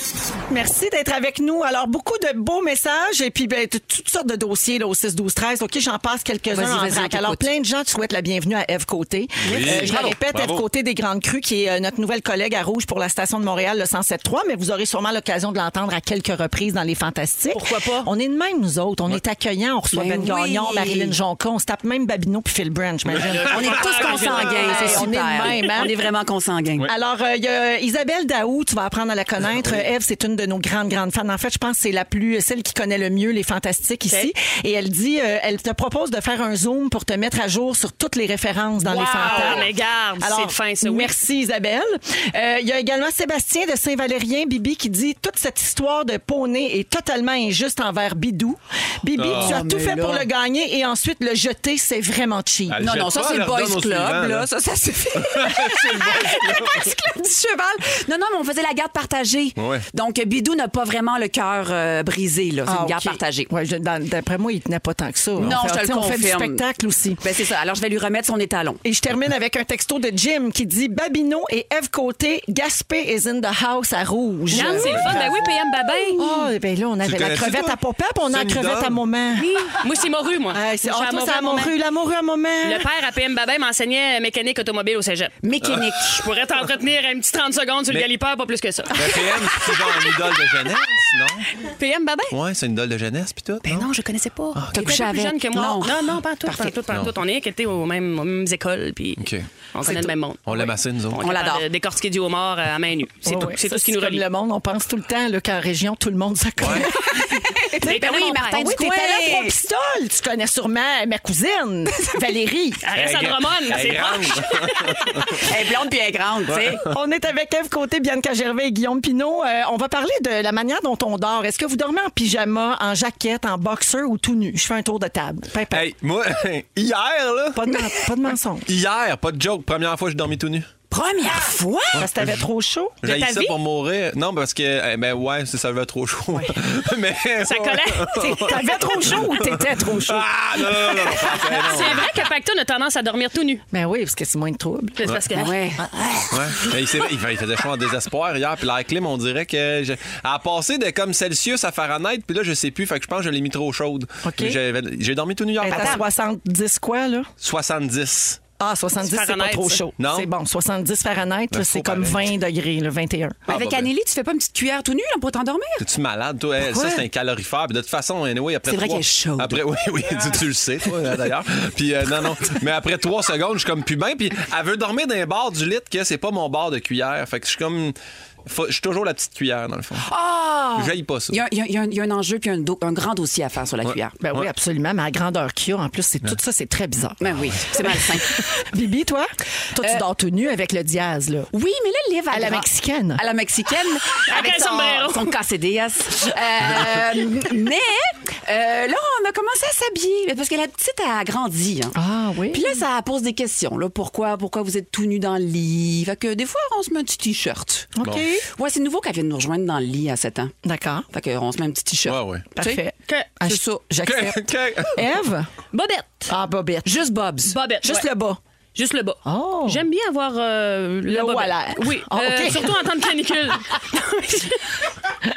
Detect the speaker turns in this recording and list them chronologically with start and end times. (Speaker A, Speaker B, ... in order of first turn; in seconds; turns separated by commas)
Speaker A: 0.5-26.0, Speaker B: 6.5-7.5, Speaker C: 9.4-10.6, Speaker B: 9.5-10.2, Speaker D: 17.5-18.1, Speaker B: 19.9-21.2, Speaker C: 23.1-23.4, Speaker D: 23.3-25.1, Speaker B: 23.4-26.9, Speaker A: 26.9-52.9, Speaker C: 29.6-29.8, Speaker D: 38.8-41.1, Speaker C: 49.2-49.6, Speaker B: 49.3-50.3, Speaker C: 52.7-54.5, Speaker B: 52.8-63.5, Speaker C: 55.2-56.9, Speaker C: 59.6-59.9, Speaker A: 62.7-67.2, Speaker B: 65.4-66.6, Speaker B: 67.2-68.8, Speaker A: 68.8-75.3, Speaker D: 74.5-76.2, Speaker C: 74.7-75.3, Speaker A: 76.2-79.6, Speaker C: 77.0-79.0, Speaker D: 79.4-81.7, Speaker A: 80.5-82.9, Speaker D: 82.6-89.2, Speaker B: 85.4-86.3, Speaker C: 88.9-91.5, Speaker B: 89.5-90.0, Speaker D: 91.6-92.4, Speaker C: 92.3-93.9, Speaker D: 93.6-104.2, Speaker C: 94.5-94.9, Speaker B: 94.7-96.8, Speaker C: 99.2-99.5, Speaker B: 99.8-100.1, Speaker C: 100.5-101.2, Speaker B: 101.2-101.7, Speaker A: 103.2-112.8, Speaker C: 106.6-106.9, Speaker B: 107.1-109.6, Speaker D: 107.8-108.5, Speaker D: 112.8-115.4, Speaker C: 113.0-115.5, Speaker B: 115.3-116.8, Speaker C: 116.5-116.8, Speaker A: 116.8-125.9, Speaker C: 125.7-127.7, Speaker A: 127.5-128.7, Speaker C: 128.7-130.7, Speaker B: 130.9-132.1, Speaker A: 131.9-133.0, Speaker C: 132.0-132.4, Speaker C: 133.0-142.1, Speaker D: 133.0-133.6, Speaker D: 137.4-138.8, Speaker A: 138.1-141.3, Speaker D: 141.1-143.6, Speaker A: 143.7-145.1, Speaker D: 145.0-145.7, Speaker B: 145.3-146.8, Speaker C: 146.3-156.1, Speaker A: 154.2-154.6, Speaker A: 155.6-157.3, Speaker B: 155.7-156.0, Speaker C: 157.4-158.4, Speaker A: 158.6-163.5, Speaker D: 159.0-159.8, Speaker C: 160.0-160.3, Speaker C: 161.5-162.2, Speaker C: 163.5-163.9, Speaker B: 163.5-165.9, Speaker C: 165.8-180.1, Speaker A: 166.6-167.1, Speaker B: 168.7-169.6, Speaker B: 180.0-184.2, Speaker C: 180.8-181.4, Speaker C: 183.8-184.5, Speaker A: 184.2-191.5, Speaker B: 187.2-188.6, Speaker B: 189.8-190.0, Speaker B: 191.5-202.0, Speaker A: 192.3-193.2, Speaker D: 194.3-195.3, Speaker A: 201.9-202.8, Speaker B: 202.5-207.9, Speaker A: 207.9-208.5, Speaker C: 208.0-208.3, Speaker B: 208.5-210.5, Speaker A: 210.6-211.1, Speaker B: 211.1-212.8, Speaker C: 212.1-212.4, Speaker A: 212.6-215.5, Speaker B: 213.4-213.8, Speaker C: 214.0-215.0, Speaker D: 215.7-216.3, Speaker A: 216.3-217.0, Speaker B: 216.8-217.6, Speaker D: 217.5-218.1, Speaker A: 217.8-218.4, Speaker D: 218.8-224.9, Speaker A: 219.2-219.8, Speaker A: 221.1-222.8